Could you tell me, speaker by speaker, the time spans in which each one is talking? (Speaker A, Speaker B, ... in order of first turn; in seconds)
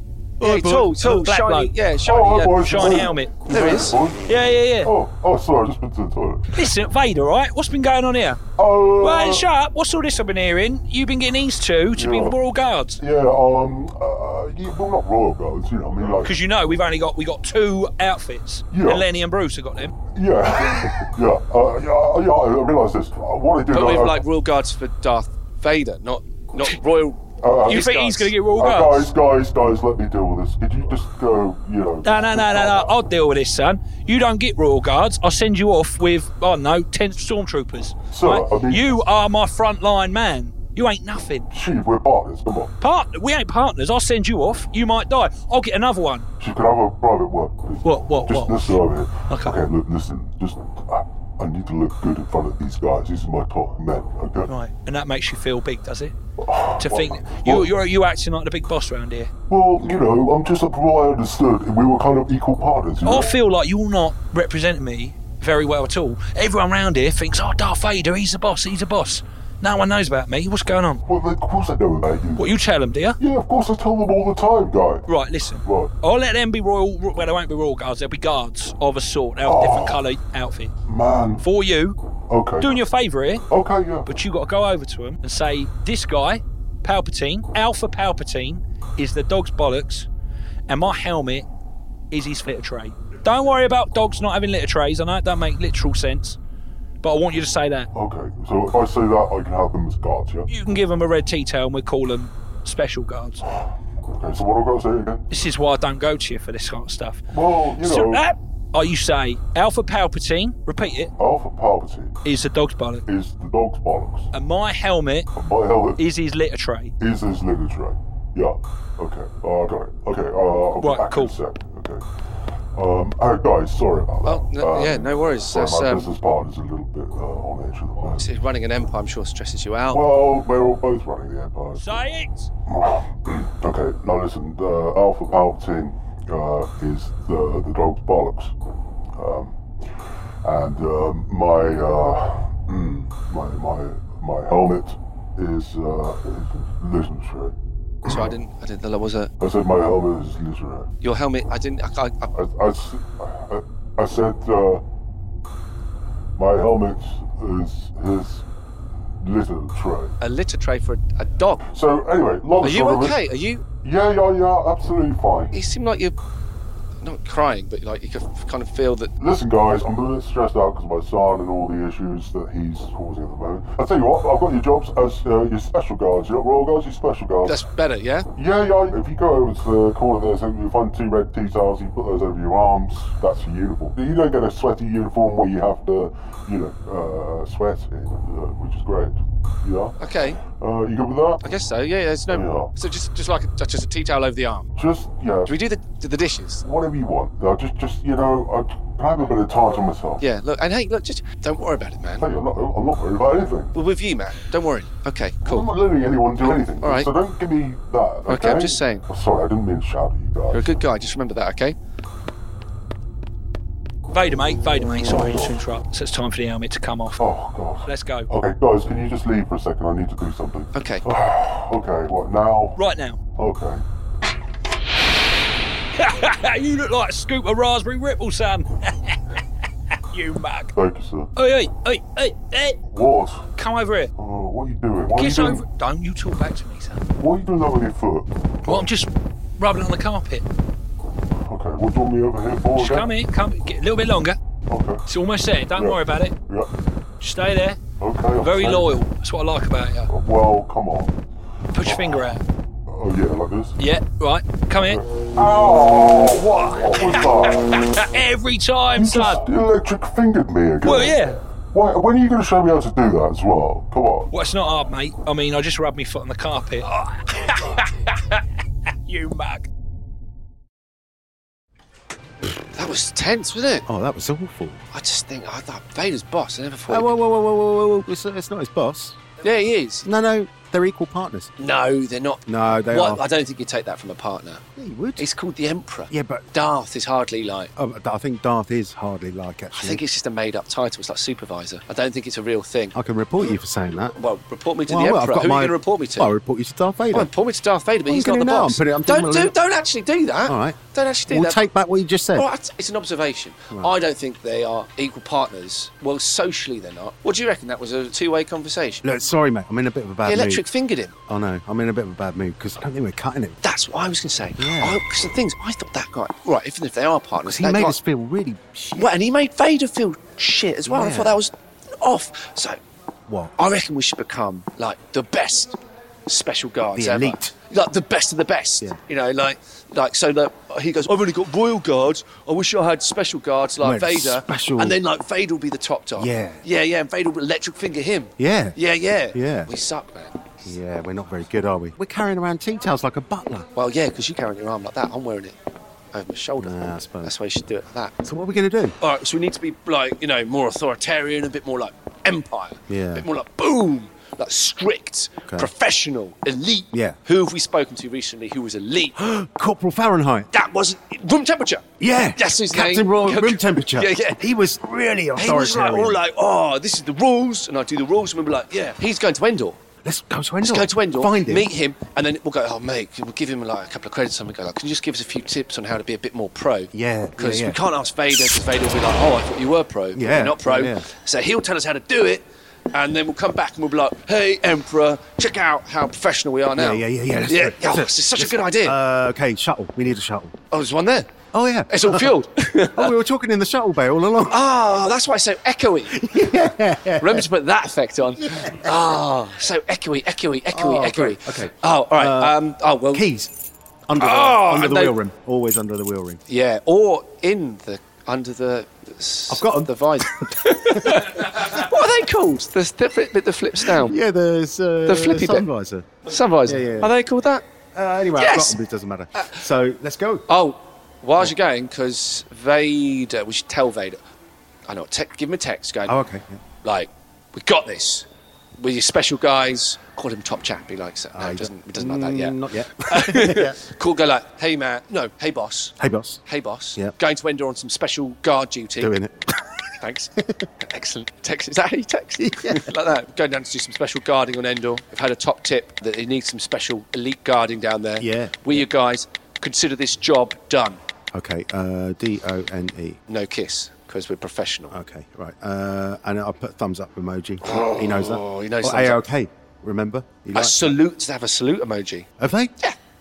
Speaker A: 0.4-4.0, 23.7-28.3, 124.2-126.1, 128.2-130.0, 148.1-149.3, 151.0-152.3, 160.2-161.6, 162.6-163.6, 165.5-166.2, 167.0-169.1, 177.4-178.3, 190.0-190.4, 191.4-194.7, 195.5-196.6, 200.2-202.3, 203.7-205.7, 206.4-207.1, 208.3-209.1, 210.5-211.8, 220.7-221.1, 272.7-273.9, 274.9-277.2, 279.4-280.1, 281.6-284.6, 285.2-287.7, 289.7-292.9, 294.2-296.3, 297.1-301.6, 302.3-309.0, 310.2-311.1, 313.6-318.0, 319.0-322.8, 323.6-340.7, 343.8-345.6, 346.1-348.2, 349.0-359.2, 360.5-364.4, 365.4-369.8, 370.6-389.0, 390.7-391.3, 391.9-393.1, 394.5-403.3, 404.2-405.2, 406.5-414.1, 415.1-415.7, 416.2-417.7, 418.4-418.8, 420.5-424.2, 424.9-426.2, 426.8-428.3, 428.8-439.1, 440.0-451.0, 453.3-454.9, 457.6-459.2, 460.5-462.3
Speaker B: 0.4-0.9, 273.9-274.8, 276.9-279.2, 280.1-281.5, 282.5-283.2, 284.8-285.3, 286.1-286.4, 287.8-290.0, 292.9-294.2, 294.9-297.3, 298.1-299.6, 300.5-302.5, 309.0-310.7, 311.3-313.6, 314.6-315.0, 317.4-319.1, 320.9-321.4, 323.3-323.5, 326.9-327.5, 333.8-335.0, 336.2-336.6, 338.4-338.8, 339.3-339.7, 340.6-343.7, 346.6-347.3, 348.2-348.9, 352.9-353.3, 356.9-357.2, 359.2-360.5, 362.0-366.2, 370.0-371.7, 376.9-377.8, 380.1-381.1, 386.7-390.6, 391.5-394.6, 396.1-397.5, 398.4-398.9, 400.7-402.6, 403.1-403.5, 404.1-406.4, 409.5-411.4, 413.8-416.1, 416.6-417.1, 417.9-420.5, 426.1-426.6, 431.3-433.8, 436.0-436.4, 439.0-439.6, 440.4-440.7, 442.4-442.9, 448.2-448.9, 451.3-453.2, 454.9-461.0, 462.4-462.7
Speaker C: 0.4-1.7, 2.5-4.9, 6.5-8.4, 9.0-13.0, 16.2-19.9, 27.7-29.1, 32.0-41.5, 42.8-46.3, 47.8-49.6, 54.5-56.1, 56.8-59.3, 63.0-71.0, 72.4-73.2, 75.1-80.7, 81.4-82.0, 82.6-83.4, 84.1-90.1, 90.7-91.5, 92.1-96.4, 97.0-97.9, 100.5-103.4, 105.3-107.2, 107.8-111.1, 112.2-113.0, 114.3-115.3, 116.0-116.9, 120.8-121.3, 131.8-132.5, 214.1-217.2, 217.9-218.3, 222.8-223.2, 226.0-229.2, 230.1-230.7, 231.4-232.8, 233.6-234.1, 235.1-237.1, 238.7-240.5, 242.8-244.4, 245.1-246.3, 247.2-247.8, 248.4-250.1, 251.7-252.4, 253.8-255.0, 256.6-259.4, 260.8-261.4, 264.3-268.4, 269.1-269.7
Speaker D: 2.0-6.6, 8.6-9.5, 11.9-12.4, 13.0-16.4, 18.7-19.1, 20.1-24.2, 27.4-27.9, 28.6-32.9, 38.1-39.0, 41.5-42.7, 46.4-54.5, 56.4-57.7, 59.5-63.4, 71.1-72.5, 73.2-75.1, 75.6-75.9, 79.4-80.0, 80.9-81.4, 82.3-82.8, 83.5-84.1, 97.9-100.5, 103.5-105.2, 107.3-108.2, 111.2-112.2, 113.1-114.3, 115.3-116.0, 117.0-122.0, 122.8-128.3, 129.9-132.0, 132.7-138.5, 139.2-139.6, 140.4-148.3, 149.4-150.9, 152.3-154.8, 156.4-158.5, 159.2-160.2, 161.7-163.2, 163.8-165.5, 169.2-177.6, 178.3-191.4, 192.3-192.7, 194.8-195.5, 196.6-200.2, 202.2-203.8, 205.4-210.7, 214.9-215.6, 217.2-222.8, 223.4-223.8, 230.8-231.3, 232.9-233.5, 234.2-235.7, 237.2-238.9, 241.4-243.1, 244.7-245.0, 245.8-246.7, 248.0-249.0, 250.1-251.2, 251.8-252.2, 252.9-253.8, 254.7-257.9, 258.9-264.3